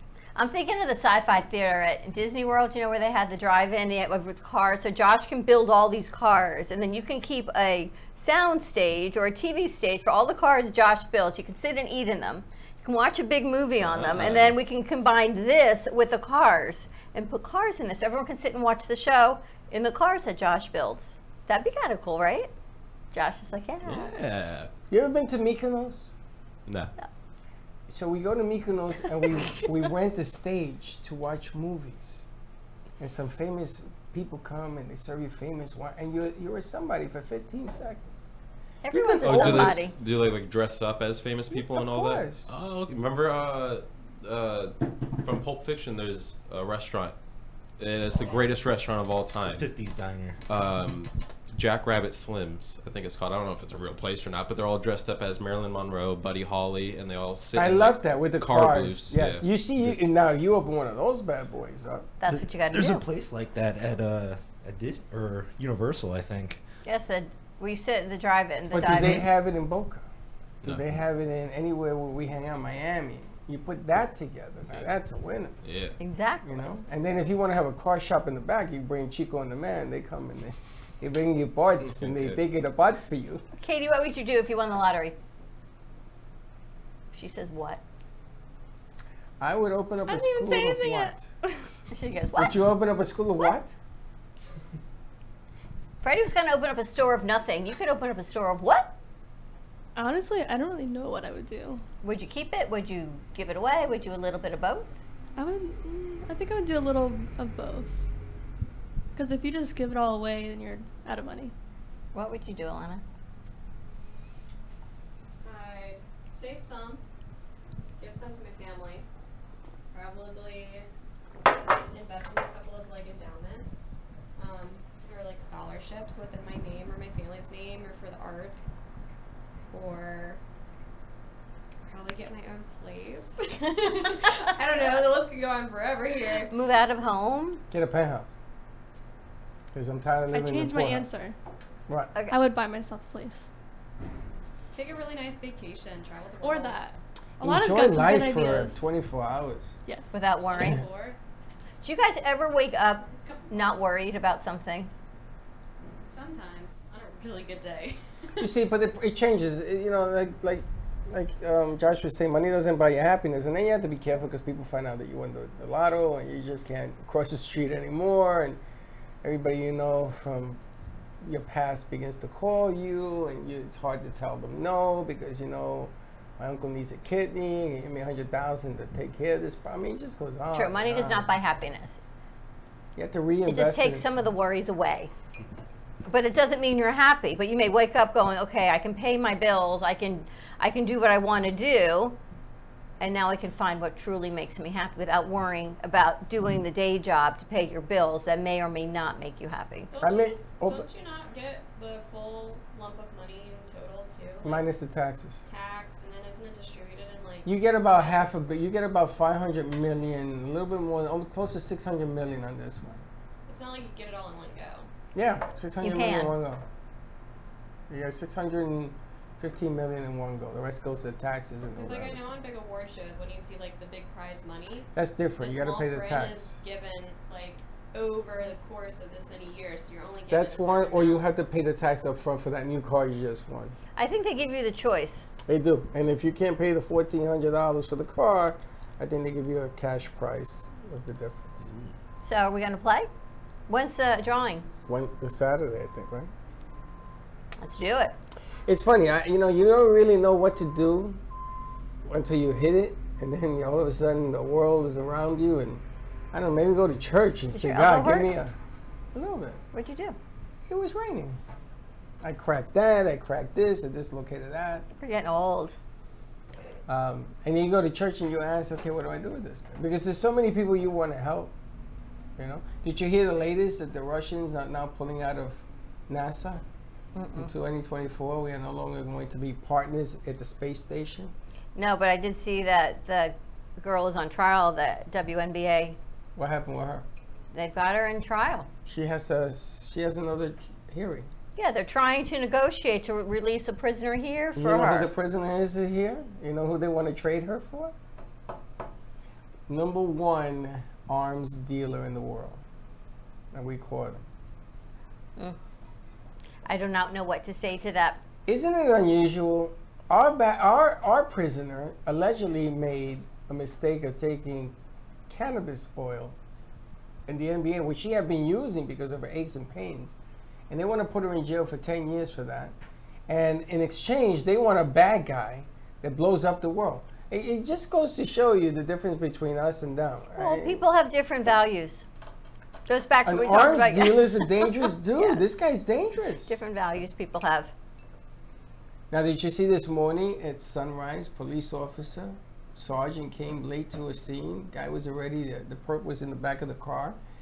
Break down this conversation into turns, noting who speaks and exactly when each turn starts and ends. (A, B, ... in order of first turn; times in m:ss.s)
0:00.3-0:22.5 A
0:13.8-0:14.6 B
0:23.1-0:24.1 A
0:23.8-0:24.7 B
0:24.9-0:26.1 C
0:26.7-0:26.9 B
0:27.9-0:32.3 C
0:33.0-0:38.1 C
0:38.8-0:39.9 A
0:38.9-0:39.8 C
0:39.2-0:47.2 B
0:41.5-0:42.5 C
0:47.8-0:49.7 B
0:49.5-0:50.4 D
0:50.5-1:00.0 B
0:57.5-1:02.1 C
1:02.2-1:03.0 A
1:02.3-1:06.6 D
1:06.8-1:09.2 A
1:08.7-1:10.1 C
1:10.6-1:15.6 C
1:15.6-1:16.0 B
1:16.0-1:16.6 A
1:16.4-1:23.4 C
1:21.8-1:22.4 B
1:23.6-1:25.2 A
1:27.1-1:27.8 A
1:29.4-1:31.3 C
1:30.1-1:31.5 E
1:31.9-1:32.6 A
1:32.4-1:33.7 C
1:36.0-1:38.9 A
1:40.0-1:41.8 E
1:42.0-1:45.0 A
1:45.4-1:48.0 E
1:49.2-1:51.5 E
1:52.1-1:53.0 A
1:55.4-1:57.0 F
1:58.0-1:59.0 F
1:59.9-2:00.9 F
2:01.9-2:08.8 F
2:09.7-2:10.4 F
2:11.8-2:16.5 F
2:16.5-2:17.6 A
2:17.7-2:18.3 C
2:19.7-2:21.1 C
2:20.3-2:21.4 E
2:21.9-2:22.1 C
2:22.3-2:23.5 E
2:24.7-2:26.9 F
2:26.4-2:28.9 E
2:27.4-2:29.7 C
2:29.8-2:30.2 E
2:30.1-2:30.8 A
2:30.3-2:31.2 F
2:31.8-2:34.9 A
2:33.2-2:33.8 F
2:36.1-2:38.5 F
2:38.4-2:48.6 C
2:49.2-2:50.6 C
2:51.2-3:01.3 C
3:00.5-3:02.0 A
3:02.9-3:04.2 C
3:03.4-3:05.1 A
3:06.1-3:12.2 A
3:13.0-3:19.9 A
3:19.9-3:24.7 F
3:20.0-3:20.9 C
3:24.4-3:25.4 C
3:25.4-3:28.5 F
3:27.4-3:33.0 C
3:33.5-3:34.9 F
3:35.1-3:36.6 C
3:35.8-3:36.3 A
3:37.9-3:42.3 C
3:41.7-3:51.3 F
3:44.9-3:46.6 C
3:50.3-3:53.7 C
3:54.0-3:55.3 A
3:55.4-4:01.6 C
4:02.2-4:03.1 A
4:03.7-4:04.7 A
4:04.9-4:06.3 C
4:07.6-4:08.1 A
4:08.6-4:11.2 C
4:12.0-4:18.5 C
4:17.5-4:18.3 A
4:19.1-4:19.6 C
4:19.7-4:20.2 A
4:20.7-4:21.4 C
4:22.2-4:24.8 C
4:25.0-4:25.8 A
4:26.9-4:31.5 C
4:32.4-4:36.6 C
4:37.1-4:37.5 A
4:37.4-4:41.3 C
4:41.8-4:46.0 A
4:46.4-4:47.0 C
4:47.5-4:48.7 A
4:48.8-4:51.3 C
4:51.6-4:55.1 A
4:54.6-4:57.9 C
4:59.7-5:02.6 C
5:03.5-5:04.2 C
5:06.6-5:08.2 A
5:08.4-5:14.8 C
5:15.3-5:16.4 C
5:17.3-5:20.2 C
5:20.7-5:22.7 C
5:23.3-5:30.8 C
5:30.4-5:32.0 A
5:32.9-5:35.4 A
5:33.2-5:36.6 C
5:36.5-5:37.7 A
5:39.1-5:47.2 C